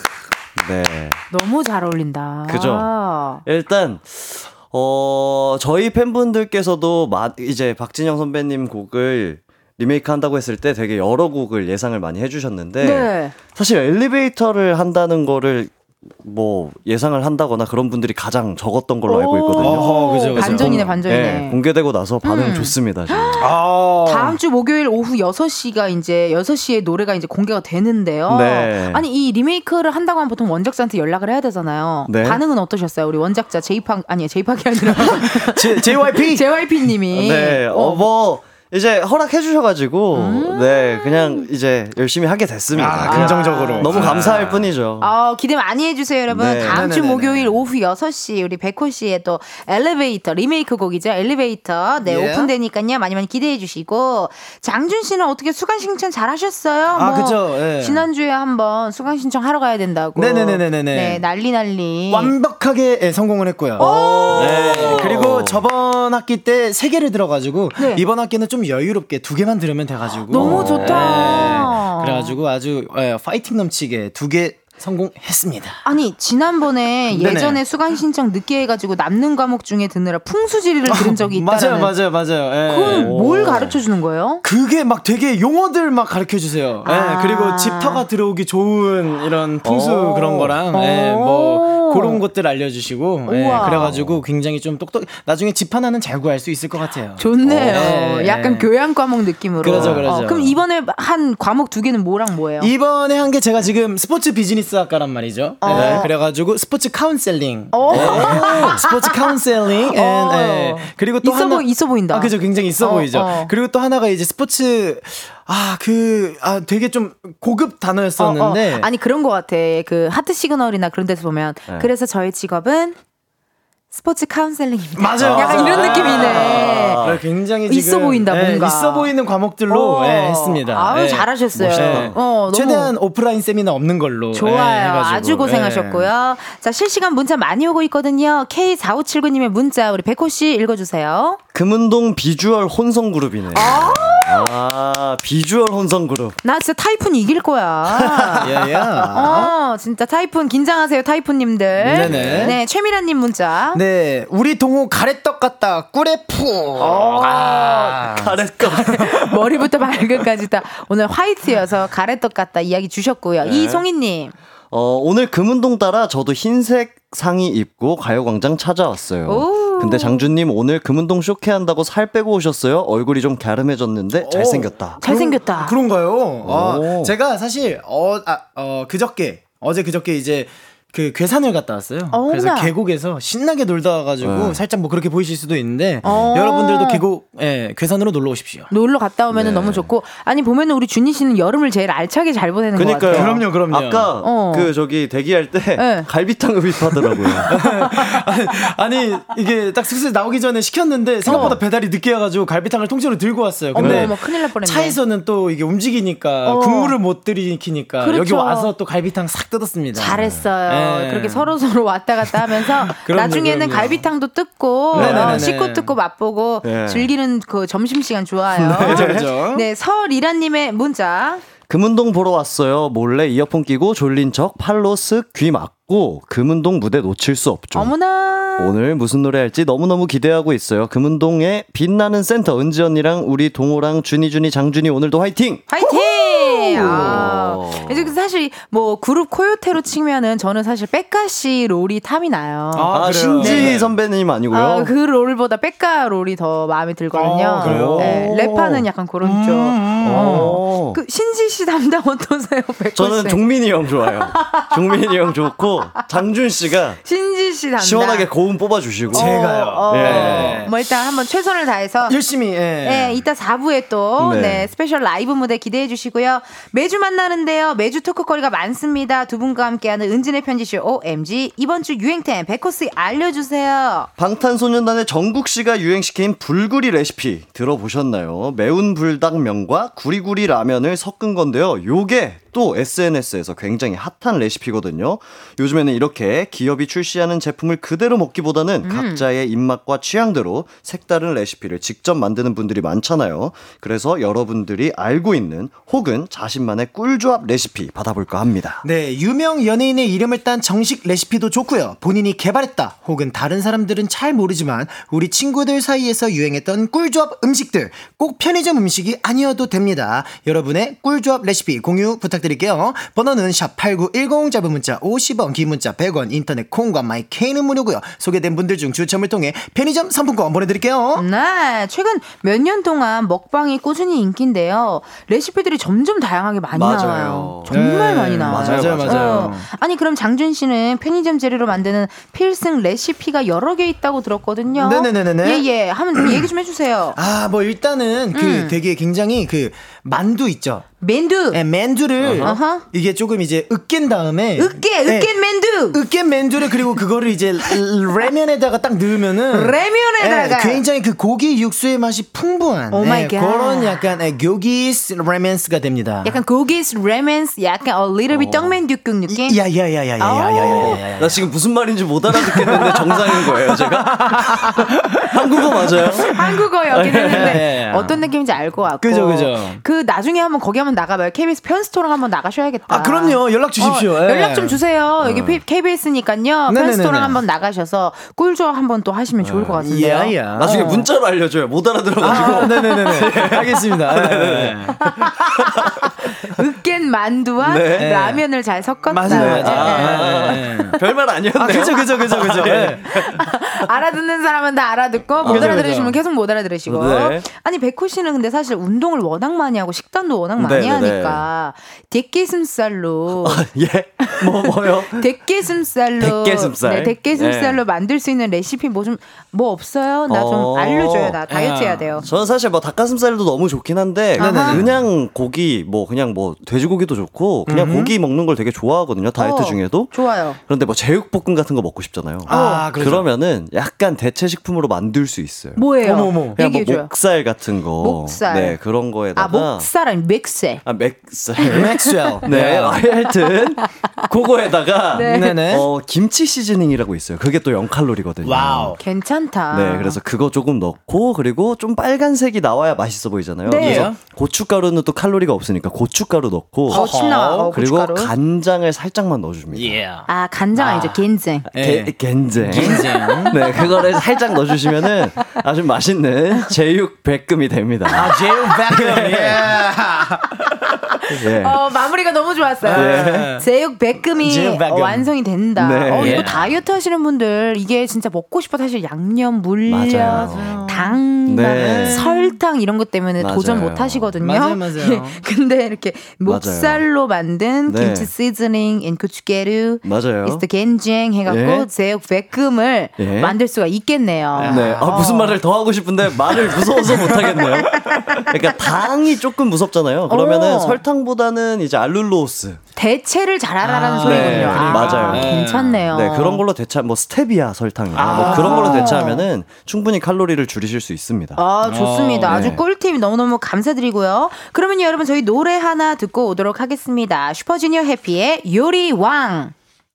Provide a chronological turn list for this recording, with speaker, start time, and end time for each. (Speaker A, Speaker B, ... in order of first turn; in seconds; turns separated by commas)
Speaker A: 0.6-1.2, Speaker B: 1.3-3.4, Speaker A: 2.5-2.9, Speaker A: 3.4-23.5, Speaker B: 12.8-13.3, Speaker B: 19.1-21.6, Speaker C: 19.6-20.9, Speaker B: 22.2-38.0, Speaker C: 23.4-24.4, Speaker A: 28.3-29.0, Speaker A: 32.1-32.4, Speaker C: 35.2-36.4, Speaker A: 37.1-45.1, Speaker B: 40.1-41.5, Speaker C: 42.7-44.7, Speaker B: 43.0-44.3, Speaker B: 45.0-62.3, Speaker A: 46.3-47.0, Speaker C: 46.7-47.4, Speaker C: 52.0-52.5, Speaker C: 56.9-58.0, Speaker C: 60.1-61.2, Speaker C: 62.1-75.8, Speaker A: 63.8-65.6, Speaker B: 63.8-65.0, Speaker B: 67.8-68.0, Speaker B: 70.3-72.3, Speaker A: 70.3-71.6, Speaker B: 75.8-81.9, Speaker C: 77.1-77.6, Speaker C: 80.9-83.2, Speaker B: 82.7-84.4, Speaker A: 82.8-83.8, Speaker C: 84.4-98.7, Speaker B: 86.8-88.0, Speaker A: 89.6-90.6, Speaker B: 90.7-92.2, Speaker B: 93.2-93.9, Speaker A: 93.6-94.2, Speaker B: 97.2-102.7, Speaker A: 97.4-97.8, Speaker C: 99.6-100.6, Speaker A: 99.7-100.1, Speaker C: 102.6-118.9, Speaker B: 105.6-106.1, Speaker A: 105.7-106.0, Speaker B: 107.7-109.3, Speaker A: 107.9-108.9, Speaker B: 109.8-113.5, Speaker B: 118.2-123.0, Speaker B: 123.9-127.0, Speaker C: 125.0-136.1, Speaker A: 125.1-127.2, Speaker B: 127.7-129.1, Speaker B: 129.7-132.9, Speaker A: 131.5-132.2, Speaker B: 134.3-141.4, Speaker A: 141.5-146.4, Speaker B: 143.5-144.5, Speaker B: 146.4-148.5, Speaker A: 147.9-148.8, Speaker C: 148.4-149.5, Speaker B: 149.1-153.8, Speaker C: 151.8-152.6, Speaker A: 151.8-152.6, Speaker C: 153.7-158.3, Speaker B: 156.8-164.3, Speaker A: 158.1-159.2, Speaker A: 163.4-163.8, Speaker A: 164.7-175.0, Speaker B: 169.2-170.3, Speaker C: 174.2-188.7, Speaker B: 175.0-175.8, Speaker A: 176.4-177.1, Speaker B: 182.1-182.7, Speaker A: 184.2-184.6, Speaker B: 186.0-187.0, Speaker A: 186.0-186.3, Speaker B: 188.7-193.4, Speaker A: 189.3-189.9, Speaker A: 192.7-197.5, Speaker C: 193.1-194.1, Speaker B: 194.2-194.7, Speaker B: 195.8-196.1, Speaker B: 197.3-198.1, Speaker C: 197.4-211.5, Speaker B: 201.2-201.6, Speaker A: 201.2-201.6, Speaker B: 203.7-205.0, Speaker A: 203.8-204.1, Speaker B: 206.4-207.0, Speaker B: 208.0-208.7, Speaker B: 209.9-221.4, Speaker A: 210.1-210.5, Speaker C: 212.5-214.0, Speaker A: 214.9-215.4, Speaker C: 214.9-215.9, Speaker A: 216.6-217.1, Speaker A: 218.5-219.3, Speaker C: 218.8-219.7, Speaker A: 221.7-227.9, Speaker B: 227.7-228.7, Speaker A: 228.6-235.7, Speaker B: 235.7-243.8, Speaker C: 235.8-237.2, Speaker A: 236.8-238.1, Speaker C: 242.7-243.9, Speaker A: 242.9-244.9, Speaker B: 244.5-253.4, Speaker C: 247.1-248.3, Speaker A: 247.6-248.9, Speaker C: 249.2-250.6, Speaker A: 250.0-251.0, Speaker A: 252.9-257.0, Speaker B: 254.0-255.3, Speaker B: 257.0-258.3, Speaker A: 257.8-260.7, Speaker C: 259.1-260.7, Speaker B: 259.1-262.2, Speaker C: 262.1-263.2, Speaker B: 262.8-274.1, Speaker A: 264.2-264.7, Speaker A: 274.2-298.9, Speaker B: 288.8-289.2, Speaker C: 298.8-321.2, Speaker B: 321.1-337.2, Speaker A: 326.7-327.7, Speaker C: 327.7-329.7, Speaker A: 328.4-329.5, Speaker C: 334.7-336.5, Speaker C: 337.1-340.8, Speaker B: 338.3-338.8, Speaker B: 341.0-341.6, Speaker C: 341.5-345.3, Speaker A: 342.2-342.5, Speaker B: 342.4-342.8, Speaker B: 344.6-346.0, Speaker C: 345.9-356.4, Speaker B: 349.5-350.8, Speaker B: 352.9-354.0, Speaker B: 356.2-359.6, Speaker A: 358.3-358.7, Speaker C: 359.3-361.5, Speaker B: 360.2-361.0, Speaker A: 360.6-366.3, Speaker C: 362.4-366.5, Speaker B: 366.2-381.1, Speaker A: 366.9-367.7, Speaker C: 367.3-368.2, Speaker C: 369.0-369.8, Speaker C: 372.9-374.8, Speaker A: 375.2-375.6, Speaker C: 376.7-377.4, Speaker A: 379.4-379.8, Speaker C: 379.8-380.9, Speaker A: 380.5-386.1, Speaker C: 382.2-385.0, Speaker B: 382.2-382.7, Speaker B: 385.1-385.9, Speaker B: 386.4-390.8, Speaker A: 387.6-388.1, Speaker C: 388.0-388.4, Speaker C: 389.1-391.0, Speaker A: 389.3-393.7, Speaker C: 391.5-393.1, Speaker B: 393.0-403.6, Speaker A: 395.4-395.8, Speaker C: 395.4-396.2, Speaker A: 396.9-397.4, Speaker A: 400.6-401.4, Speaker A: 403.4-405.3, Speaker B: 404.2-412.2, Speaker A: 406.2-407.8, Speaker A: 410.3-411.4, Speaker C: 411.5-412.2, Speaker A: 412.2-426.0, Speaker B: 414.4-414.8, Speaker C: 414.4-414.9, Speaker C: 417.7-418.1, Speaker B: 419.4-420.6, Speaker C: 422.4-423.3, Speaker B: 422.5-422.9, Speaker B: 425.8-427.1, Speaker C: 426.0-426.6, Speaker A: 426.5-429.9, Speaker B: 428.0-428.8, Speaker B: 429.3-430.8, Speaker A: 430.8-439.0, Speaker B: 431.6-432.4, Speaker C: 431.7-433.0, Speaker B: 435.1-435.6, Speaker C: 435.2-435.9, Speaker C: 438.4-439.0, Speaker B: 439.0-440.2, Speaker A: 439.7-447.1, Speaker B: 443.6-444.1, Speaker C: 443.8-444.2, Speaker C: 446.9-447.7, Speaker B: 446.9-448.3, Speaker A: 447.7-450.0, Speaker C: 449.7-453.9, Speaker B: 450.2-451.7, Speaker A: 451.7-459.8, Speaker B: 452.8-454.3, Speaker C: 458.1-460.4, Speaker A: 461.1-461.9, Speaker B: 461.4-485.6, Speaker C: 462.8-463.6, Speaker A: 462.9-463.5, Speaker C: 464.4-465.3, Speaker A: 465.8-466.5, Speaker C: 466.1-466.7, Speaker A: 469.9-470.8, Speaker C: 470.1-472.6, Speaker A: 471.5-472.2, Speaker A: 473.4-474.3, Speaker C: 474.4-475.4, Speaker A: 476.4-477.0, Speaker A: 477.9-478.3, Speaker A: 480.0-480.6, Speaker A: 481.4-481.9, Speaker A: 483.2-483.6, Speaker C: 484.6-485.2, Speaker A: 484.6-492.8, Speaker B: 490.3-491.0, Speaker B: 492.9-496.6, Speaker C: 493.8-496.0, Speaker A: 494.2-495.6, Speaker A: 496.1-501.6, Speaker C: 498.1-499.3, Speaker B: 498.1-499.4, Speaker B: 501.6-509.7, Speaker C: 501.8-502.7, Speaker A: 502.4-502.8